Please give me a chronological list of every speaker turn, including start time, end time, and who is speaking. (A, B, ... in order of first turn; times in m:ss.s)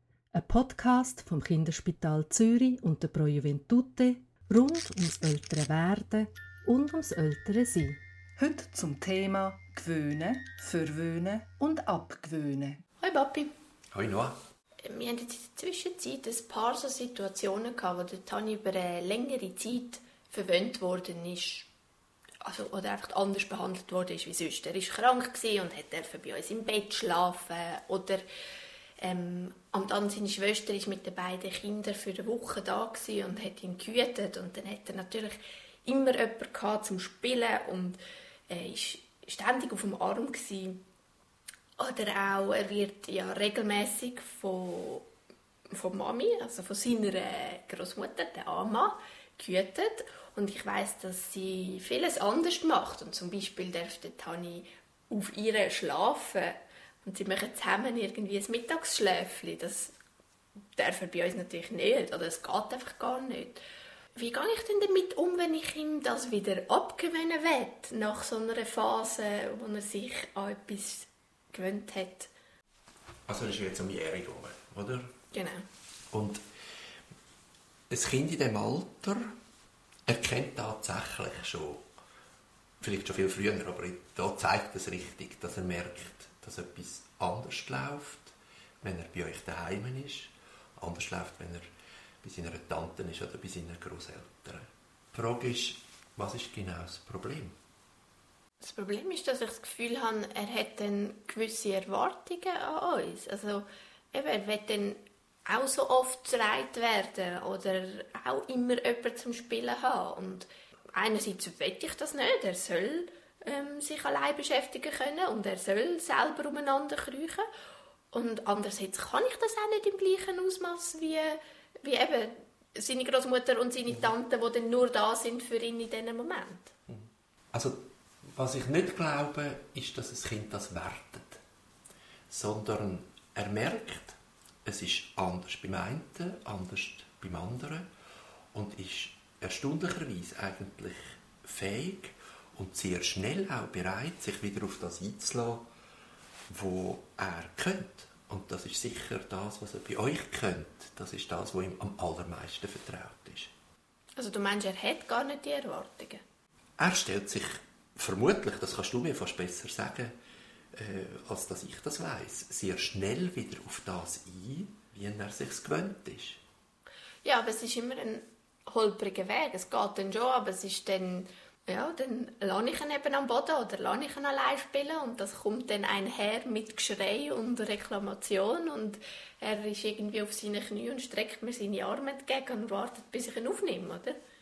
0:00.3-0:08.0 A
0:08.4-0:12.8 B
0:13.0-0:13.5 C
0:13.9-0:14.4 D
0:14.8-0:21.7 C
0:22.4-0:28.2 C
0:29.0-0:38.0 C
0:38.5-0:40.8 C
0:41.8-0:45.1 C
0:45.7-0:59.9 C
1:00.7-1:03.6 C
1:04.2-1:12.3 C
1:13.3-1:15.1 D
1:15.3-1:15.6 C
1:16.1-1:16.4 D
1:17.9-1:19.3 D
1:20.1-1:21.9 D
1:22.8-1:31.7 D
1:32.2-1:37.5 D
1:38.6-1:57.4 C
1:58.1-2:06.7 C
2:06.9-2:07.8 D
2:08.4-2:11.4 D
2:12.3-2:17.9 D
2:18.5-2:25.6 D
2:26.5-2:33.5 D
2:34.2-2:36.2 C
2:36.8-2:40.1 D
2:40.7-2:46.4 D
2:47.2-3:04.2 C